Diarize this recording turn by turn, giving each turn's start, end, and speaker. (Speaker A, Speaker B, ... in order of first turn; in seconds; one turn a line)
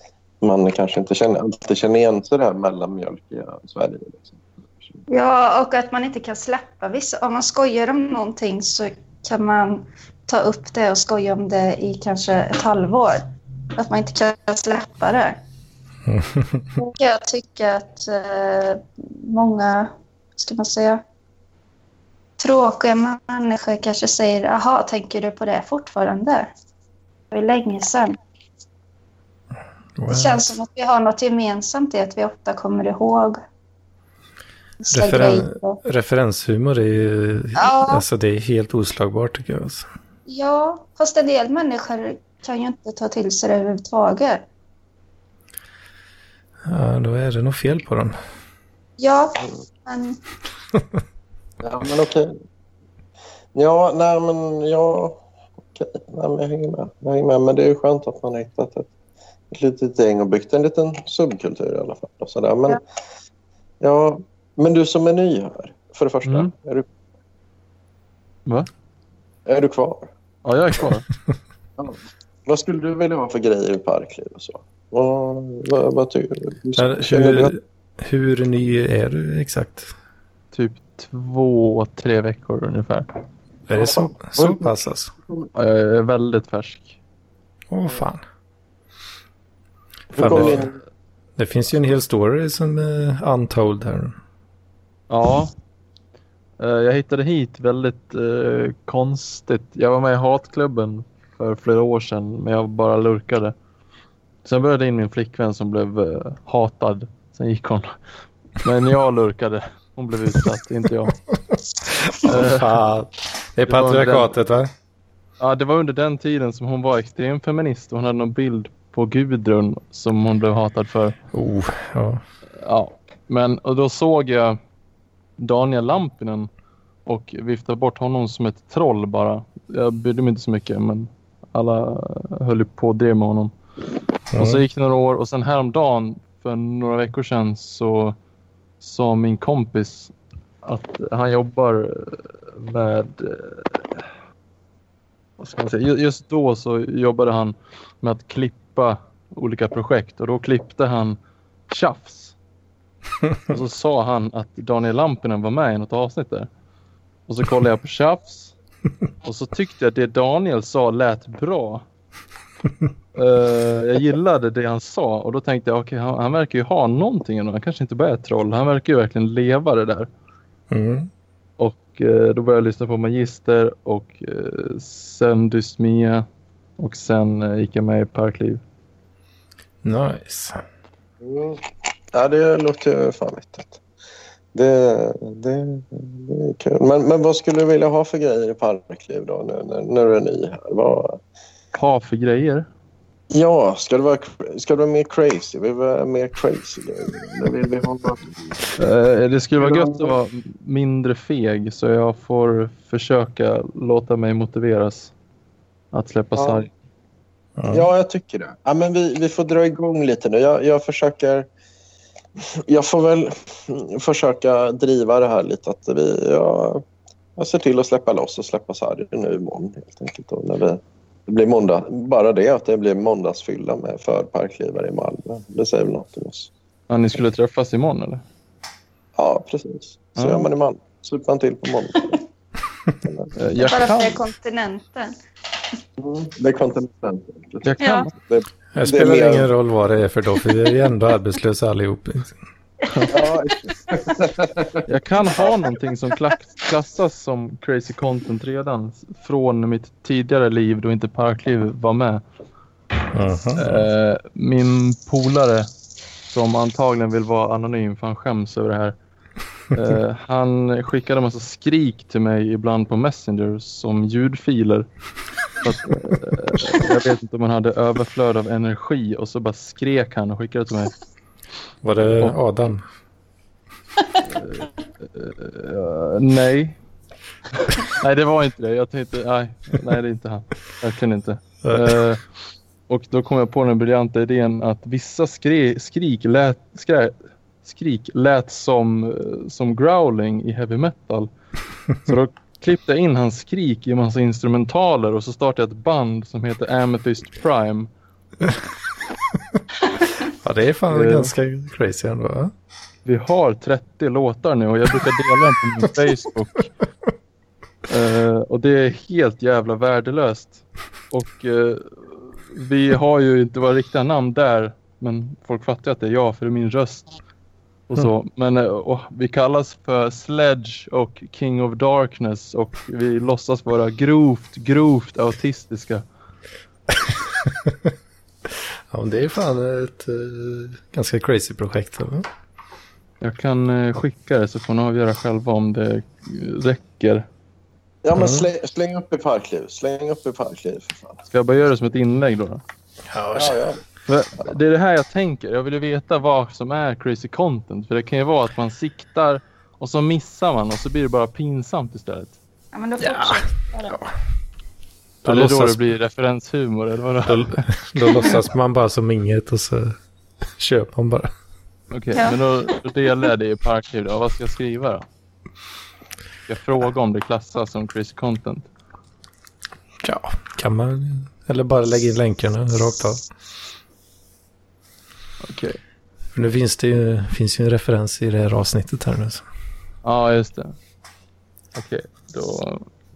Speaker A: 0.4-5.0
Speaker B: 5.1-15.4
Speaker C: 16.1-16.6
Speaker B: 16.8-21.0
Speaker B: 22.4-26.5
Speaker B: 27.3-28.2
Speaker C: 30.0-30.6
Speaker B: 30.1-33.4
Speaker B: 34.8-35.8
Speaker C: 34.9-39.9
Speaker B: 37.6-38.0
Speaker B: 40.3-44.4
Speaker C: 46.7-48.2
Speaker B: 49.0-50.2
Speaker A: 51.6-52.3
Speaker A: 53.5-58.9
Speaker A: 59.5-62.8
Speaker A: 63.8-66.9
Speaker D: 66.3-66.5
Speaker A: 69.5-70.1
Speaker D: 70.4-71.1
Speaker A: 71.8-77.5
Speaker C: 76.8-79.9
Speaker D: 80.5-83.1
Speaker C: 83.7-85.1
Speaker A: 83.8-84.7
Speaker D: 85.5-87.0
Speaker C: 87.7-88.2
Speaker C: 90.1-90.7
Speaker A: 90.1-90.8
Speaker C: 91.4-94.2
Speaker D: 95.1-95.5
Speaker D: 96.6-103.5
Speaker D: 104.5-107.9
Speaker D: 108.6-111.2
Speaker C: 112.1-114.7
Speaker D: 112.2-112.7
Speaker D: 113.7-114.3
Speaker D: 115.4-121.2
Speaker C: 121.3-122.2
Speaker D: 122.6-124.6
Speaker D: 125.4-126.5
Speaker D: 127.1-133.5
Speaker C: 134.3-134.6
Speaker D: 134.4-138.2
Speaker D: 138.8-140.1
Speaker D: 140.6-144.1
Speaker D: 145.4-151.2
Speaker D: 151.7-152.3
Speaker D: 153.5-156.5
Speaker D: 157.3-158.5
Speaker D: 159.2-161.8
Speaker D: 163.2-170.1
Speaker C: 170.7-171.1
Speaker D: 171.6-176.3
Speaker D: 176.8-178.6
Speaker C: 179.8-180.6
Speaker A: 181.2-181.6
Speaker A: 182.1-183.8
Speaker A: 184.5-191.2
Speaker D: 191.7-192.7
Speaker A: 193.3-198.6
Speaker D: 198.8-205.1
Speaker A: 199.6-200.1
Speaker D: 205.9-206.7
Speaker A: 206.4-206.6
Speaker C: 207.6-207.9
Speaker A: 207.7-211.5
Speaker A: 212.7-216.8
Speaker A: 217.4-226.5
Speaker D: 226.9-228.2
Speaker A: 229.2-232.2
Speaker D: 230.2-230.5
Speaker A: 233.0-233.4
Speaker D: 233.4-234.2
Speaker B: 233.6-235.2
Speaker A: 236.0-239.5
Speaker D: 237.6-238.1
Speaker B: 237.8-238.1
Speaker C: 238.7-242.4
Speaker A: 243.1-244.8
Speaker D: 244.9-252.2
Speaker C: 253.1-253.8
Speaker D: 253.6-255.7
Speaker D: 256.3-258.9
Speaker D: 259.7-264.9
Speaker D: 265.6-270.9
Speaker C: 271.8-272.8
Speaker D: 274.2-276.8
Speaker D: 277.6-282.2
Speaker C: 281.6-281.9
Speaker D: 282.9-291.3
Speaker D: 292.0-297.9
Speaker C: 300.4-302.5
Speaker D: 300.9-301.3
Speaker D: 303.1-306.7
Speaker D: 307.9-317.2
Speaker D: 317.9-326.0
Speaker C: 327.1-327.9
Speaker C: 328.9-332.3
Speaker D: 333.2-337.3
Speaker A: 338.0-341.2
Speaker C: 338.2-338.5
Speaker D: 341.3-342.6
Speaker C: 343.1-343.6
Speaker A: 343.4-343.8
Speaker D: 344.1-352.4
Speaker B: 352.7-354.0
Speaker C: 353.0-354.1
Speaker C: 355.2-355.8
Speaker D: 355.2-357.6
Speaker C: 357.3-360.0
Speaker C: 360.6-361.3
Speaker D: 361.9-365.1
Speaker B: 362.1-362.4
Speaker D: 366.5-368.7
Speaker C: 370.0-373.2
Speaker D: 375.4-375.8
Speaker C: 376.4-379.4
Speaker D: 380.0-380.8
Speaker D: 381.7-382.9